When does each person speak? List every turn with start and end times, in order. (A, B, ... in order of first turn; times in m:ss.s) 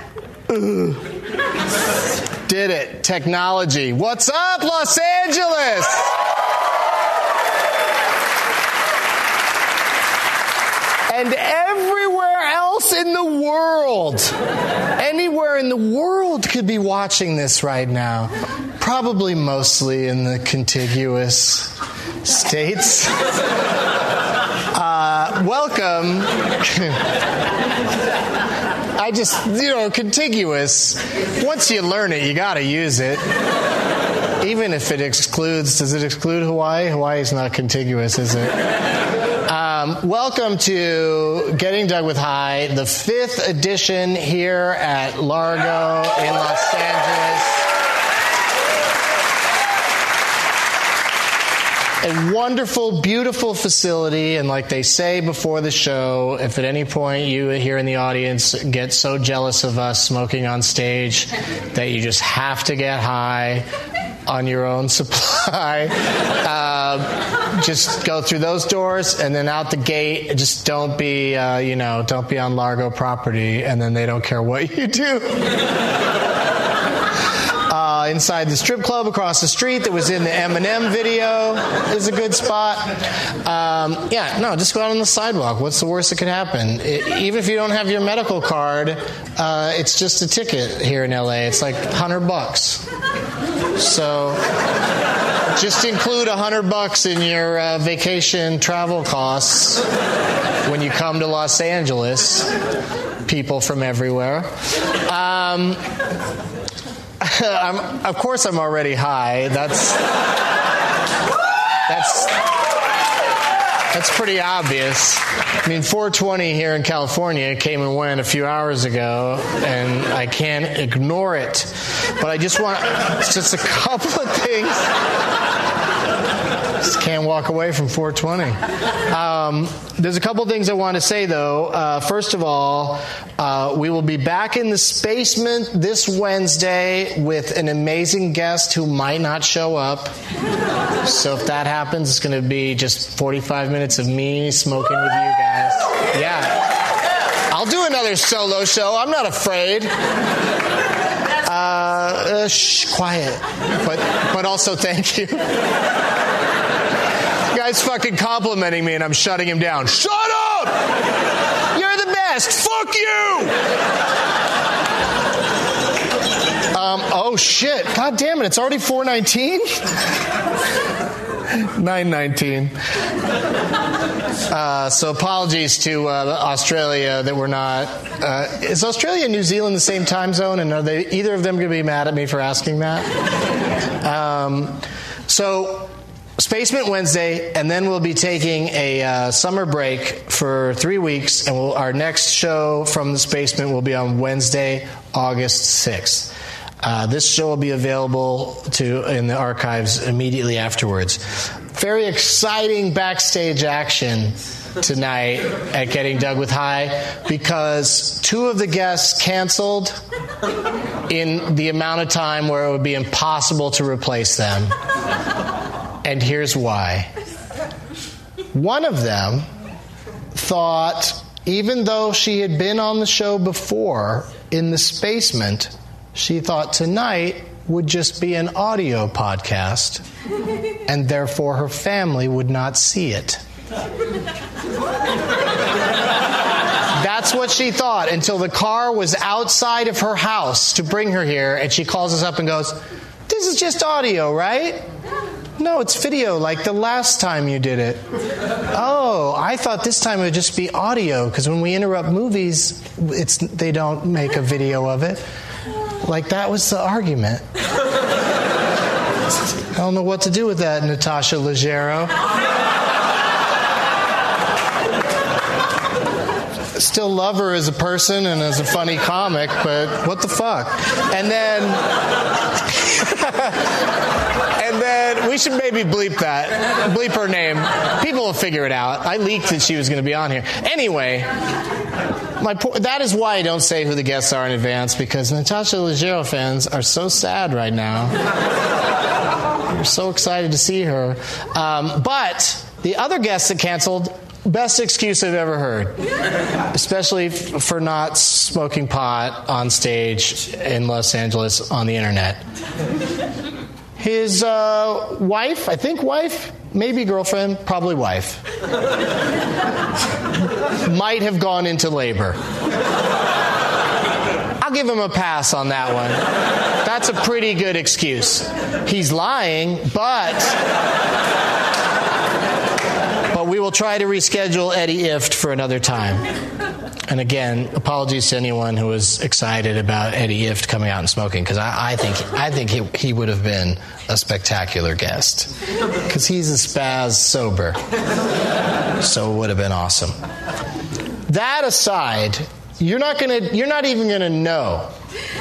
0:00.5-0:01.0 A
0:02.4-0:06.1 A
0:11.1-0:14.3 A
0:15.0-0:23.1 A
0:24.7-0:27.0 A
0:29.0-0:33.2 A
0:34.4-0:38.5 A
0:39.5-0:47.6 A
0:52.0-1:03.6 A
1:04.3-1:15.5 A
1:17.7-1:32.8 A
1:33.8-1:34.4 A
1:35.5-1:39.8 A
1:40.6-1:42.5 A
1:43.2-1:44.5 A
1:45.0-1:45.8 A
1:47.2-1:50.0 A
1:51.9-1:52.4 A
1:53.9-2:04.9 A
2:06.8-2:20.1 A
2:21.0-2:26.6 A
2:27.5-2:29.9 A
2:31.4-2:35.5 A
2:37.5-2:40.8 A
2:41.7-2:43.6 A
2:46.7-2:49.8 A
2:51.5-2:52.7 A
2:54.5-3:03.1 A
3:04.0-3:21.2 A
3:21.7-3:30.0 A
3:31.1-3:34.7 A
3:36.0-3:37.1 A
3:38.5-3:39.5 A
3:40.3-3:50.0 A
3:50.9-3:53.4 A
3:57.0-4:04.8 A
4:05.6-4:08.0 A
4:08.7-4:15.2 A
4:16.0-4:17.4 A
4:19.7-4:22.1 A
4:26.7-4:31.8 A
4:32.9-4:33.6 A
4:34.6-4:41.3 A
4:42.4-4:48.1 A
4:49.7-4:56.0 A
4:56.7-5:02.4 A
5:04.0-5:08.4 A
5:10.8-5:12.4 A
5:14.6-5:16.2 A
5:16.8-5:20.6 A
5:23.3-5:26.2 A
5:27.1-5:35.5 A
5:36.1-5:37.8 A
5:39.0-5:40.2 A
5:41.3-5:44.9 A